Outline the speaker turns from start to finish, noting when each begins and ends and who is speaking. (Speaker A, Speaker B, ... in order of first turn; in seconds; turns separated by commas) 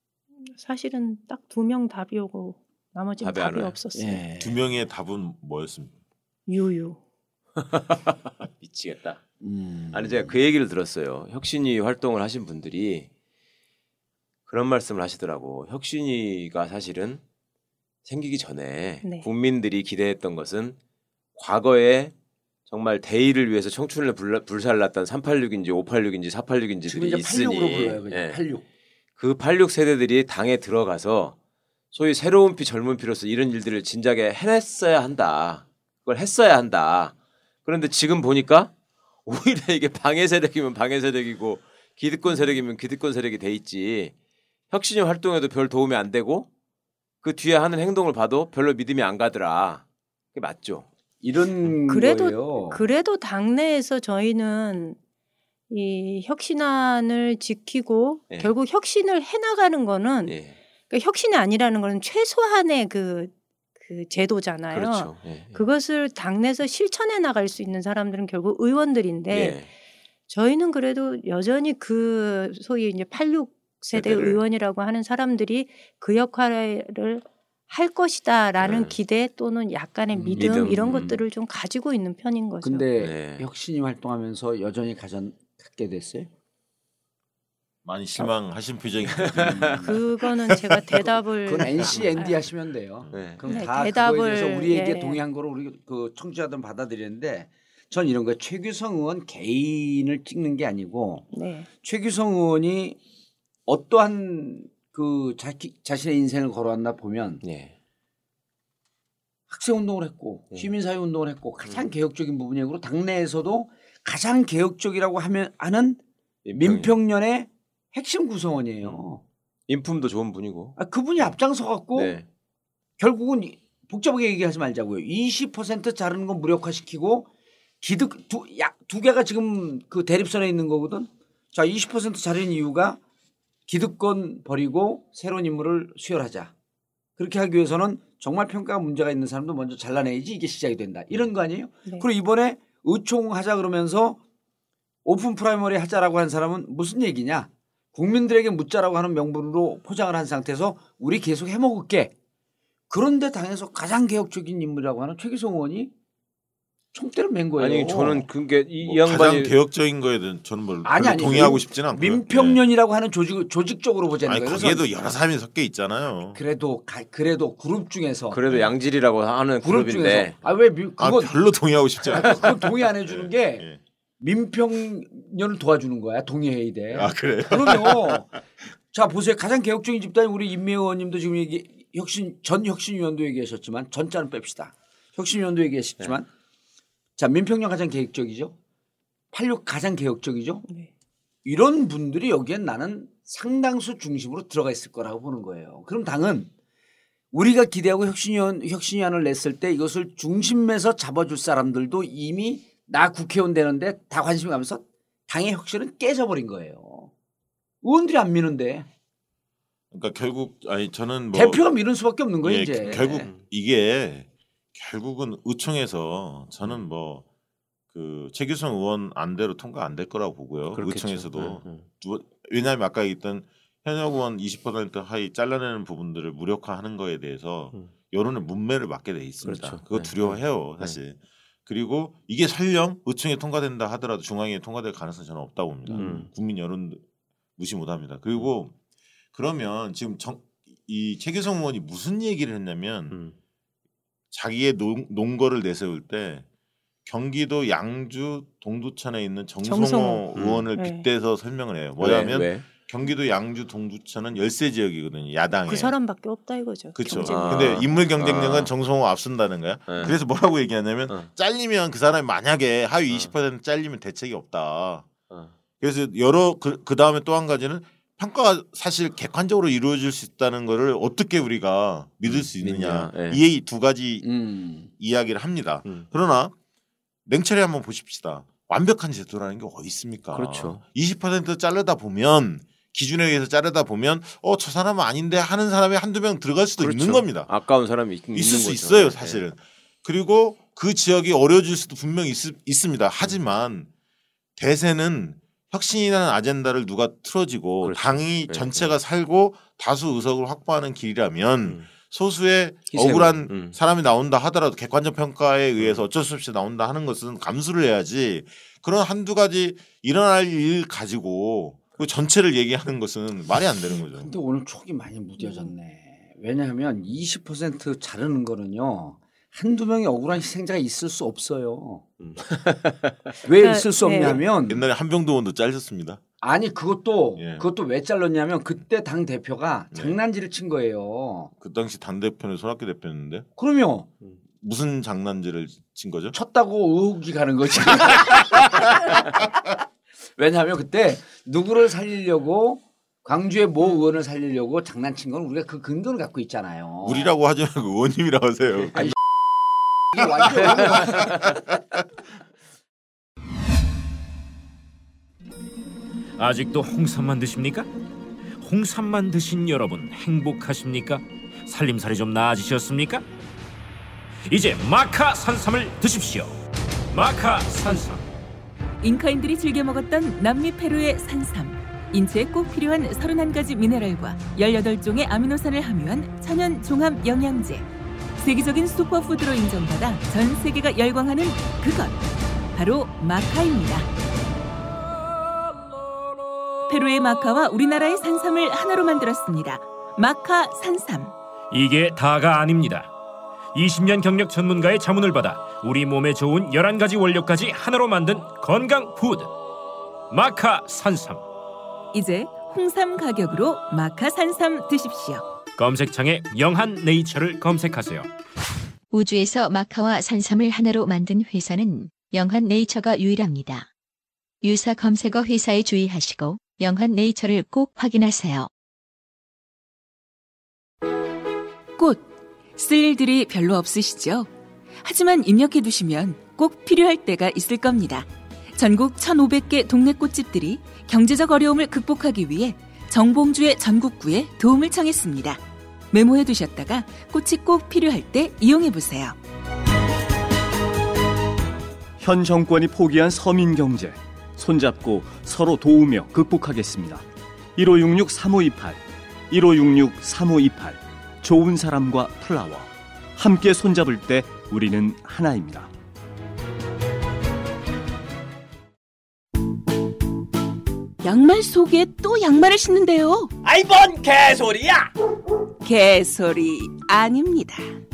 Speaker A: 0.5-4.2, Speaker B: 3.2-3.8, Speaker C: 3.9-4.6, Speaker D: 4.4-6.0, Speaker A: 6.5-7.0, Speaker B: 7.6-9.2, Speaker C: 9.4-10.4, Speaker B: 9.9-13.1, Speaker B: 14.5-17.2, Speaker B: 18.1-20.8, Speaker B: 21.4-22.1, Speaker B: 22.7-28.4, Speaker C: 26.9-28.6, Speaker B: 29.2-31.4, Speaker B: 31.9-37.1, Speaker B: 37.6-38.7, Speaker B: 39.3-44.1, Speaker B: 44.7-46.5, Speaker B: 47.2-50.9, Speaker C: 51.2-52.8, Speaker A: 51.9-55.0, Speaker A: 55.7-60.4, Speaker B: 60.3-60.5, Speaker A: 60.9-69.6, Speaker B: 64.7-65.6, Speaker B: 69.3-69.7, Speaker A: 70.3-82.8, Speaker B: 73.9-74.4, Speaker B: 78.6-79.0, Speaker C: 80.1-81.2, Speaker B: 80.3-81.1, Speaker C: 82.6-86.3, Speaker B: 83.0-83.5, Speaker D: 87.8-89.9, Speaker C: 89.3-90.0, Speaker A: 89.8-92.3, Speaker C: 91.5-101.3, Speaker B: 93.1-93.4, Speaker A: 93.5-95.2, Speaker A: 101.3-101.7, Speaker C: 101.8-103.0, Speaker C: 103.7-107.4, Speaker B: 107.4-107.7, Speaker C: 109.5-116.0, Speaker B: 111.7-111.9, Speaker B: 116.5-116.9, Speaker C: 116.6-119.2, Speaker B: 119.7-121.3, Speaker C: 120.8-122.2, Speaker B: 121.9-122.3, Speaker C: 123.0-127.3, Speaker C: 127.8-133.0, Speaker C: 133.7-136.5, Speaker C: 137.2-144.2, Speaker C: 145.1-152.1, Speaker C: 152.9-155.9, Speaker C: 156.9-158.3, Speaker B: 157.6-159.6, Speaker D: 158.8-162.6, Speaker C: 160.8-164.9, Speaker D: 164.3-166.4, Speaker C: 166.3-168.4, Speaker B: 168.3-170.3, Speaker C: 169.6-171.3, Speaker D: 171.0-172.5, Speaker C: 172.0-173.7, Speaker D: 173.1-173.8, Speaker C: 174.2-178.3, Speaker D: 176.9-178.2, Speaker C: 178.9-186.3, Speaker C: 187.2-188.6, Speaker C: 189.3-190.7, Speaker C: 191.4-196.5, Speaker C: 197.3-207.1, Speaker C: 207.8-208.9, Speaker D: 209.9-211.6, Speaker C: 211.3-213.3, Speaker D: 212.4-217.2, Speaker B: 212.9-213.4, Speaker D: 217.9-237.0, Speaker B: 220.7-221.8, Speaker B: 229.4-231.0, Speaker B: 235.9-236.3, Speaker D: 237.6-238.7, Speaker D: 239.3-243.2, Speaker D: 244.3-246.4, Speaker D: 247.1-255.9, Speaker A: 249.6-250.2, Speaker B: 250.3-250.7, Speaker A: 250.8-251.1, Speaker B: 252.0-252.7, Speaker A: 255.7-257.8, Speaker D: 257.0-265.1, Speaker B: 257.2-258.7, Speaker B: 259.9-260.2, Speaker D: 265.8-274.3, Speaker B: 272.3-273.4, Speaker C: 274.2-274.9, Speaker D: 275.0-276.5, Speaker D: 277.3-287.5, Speaker B: 280.3-280.8, Speaker B: 286.8-289.4, Speaker D: 288.3-293.9, Speaker D: 294.6-314.3, Speaker B: 297.8-298.9, Speaker B: 302.9-303.8, Speaker B: 305.8-306.0, Speaker C: 314.1-322.1, Speaker A: 315.4-315.7, Speaker B: 322.2-323.1, Speaker C: 323.4-324.9, Speaker A: 323.5-324.4, Speaker D: 324.2-326.2, Speaker C: 326.4-331.5, Speaker D: 327.4-327.6, Speaker D: 331.6-333.5, Speaker C: 333.6-334.1, Speaker D: 334.6-336.4, Speaker C: 336.3-339.4, Speaker D: 338.0-339.0, Speaker C: 340.4-347.3, Speaker D: 347.1-349.1, Speaker C: 350.1-351.3, Speaker D: 350.1-352.0, Speaker E: 356.4-357.9, Speaker E: 358.6-363.2, Speaker E: 364.5-366.6, Speaker E: 367.1-368.2, Speaker F: 369.0-382.2, Speaker F: 382.7-384.1, Speaker F: 386.9-391.4, Speaker E: 391.7-393.1, Speaker E: 393.8-399.5, Speaker E: 400.3-401.4, Speaker F: 402.1-405.5, Speaker E: 405.8-408.3, Speaker G: 409.1-413.9, Speaker G: 414.6-418.7, Speaker F: 422.0-424.5, Speaker F: 425.0-435.6, Speaker F: 436.1-439.4, Speaker H: 442.2-455.9, Speaker F: 461.2-463.5, Speaker H: 463.6-465.1, Speaker F: 465.8-467.8